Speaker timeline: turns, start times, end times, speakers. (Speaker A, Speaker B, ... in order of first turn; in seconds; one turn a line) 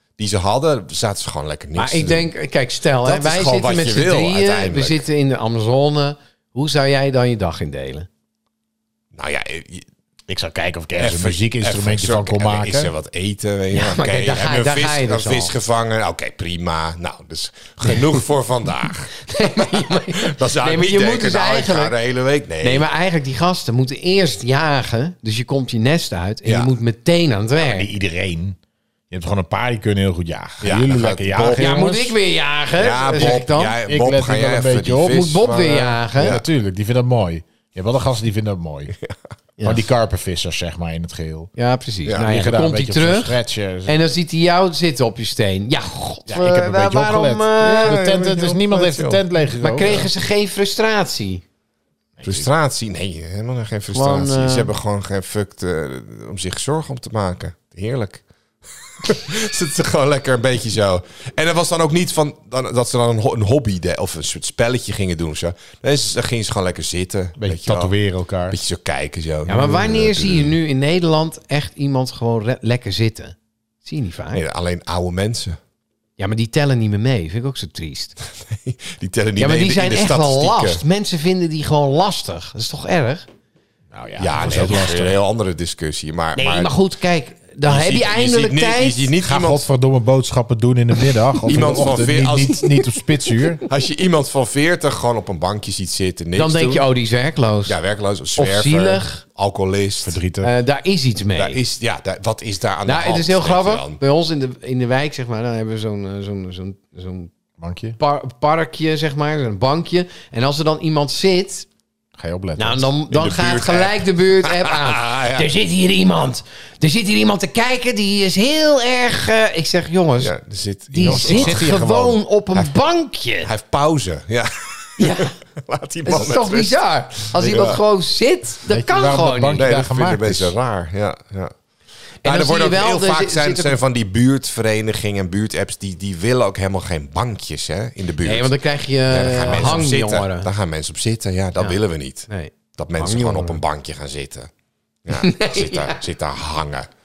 Speaker A: 0.2-2.3
Speaker B: 1.8-8.1
Speaker A: 3.0-5.0
Speaker A: 9.1-9.9
Speaker C: 10.3-12.9
Speaker A: 11.0-19.2
Speaker B: 13.7-15.5
Speaker B: 19.2-21.9
Speaker A: 20.1-22.9
Speaker B: 22.6-27.9
Speaker A: 26.4-26.7
Speaker C: 27.6-28.6
Speaker C: 29.1-32.1
Speaker A: 30.6-32.0
Speaker B: 31.6-33.8
Speaker A: 32.8-36.4
Speaker C: 33.8-35.2
Speaker B: 35.0-36.4
Speaker C: 36.1-38.9
Speaker B: 39.6-39.9
Speaker C: 39.6-41.5
Speaker B: 41.6-48.0
Speaker C: 42.2-44.0
Speaker C: 46.3-50.1
Speaker A: 47.6-49.2
Speaker B: 49.6-51.4
Speaker A: 49.8-50.1
Speaker C: 52.2-52.5
Speaker A: 52.2-58.2
Speaker B: 53.9-54.7
Speaker A: 58.8-67.9
Speaker C: 67.4-68.6
Speaker A: 68.5-70.5
Speaker B: 69.5-74.4
Speaker A: 74.3-75.6
Speaker B: 76.2-78.2
Speaker A: 78.5-80.8
Speaker B: 79.4-83.2
Speaker C: 83.9-85.2
Speaker A: 84.2-86.8
Speaker B: 86.3-89.1
Speaker A: 87.7-89.7
Speaker C: 89.2-93.6
Speaker A: 91.4-92.8
Speaker A: 93.6-96.8
Speaker B: 96.3-97.8
Speaker A: 97.7-100.2
Speaker B: 98.3-99.2
Speaker C: 100.0-100.5
Speaker B: 100.4-101.6
Speaker A: 101.4-104.0
Speaker B: 102.8-107.3
Speaker C: 107.6-108.0
Speaker B: 108.0-111.7
Speaker C: 112.2-112.9
Speaker B: 112.6-120.3
Speaker A: 113.1-115.5
Speaker A: 120.2-122.8
Speaker B: 120.9-123.5
Speaker C: 121.0-122.2
Speaker A: 123.4-127.8
Speaker B: 125.0-125.3
Speaker B: 126.0-129.6
Speaker C: 128.7-130.5
Speaker A: 129.6-131.5
Speaker B: 132.2-133.8
Speaker A: 132.2-138.5
Speaker B: 138.2-140.5
Speaker A: 139.1-144.5
Speaker C: 139.5-139.8
Speaker B: 141.6-143.6
Speaker A: 145.0-146.9
Speaker B: 145.1-146.0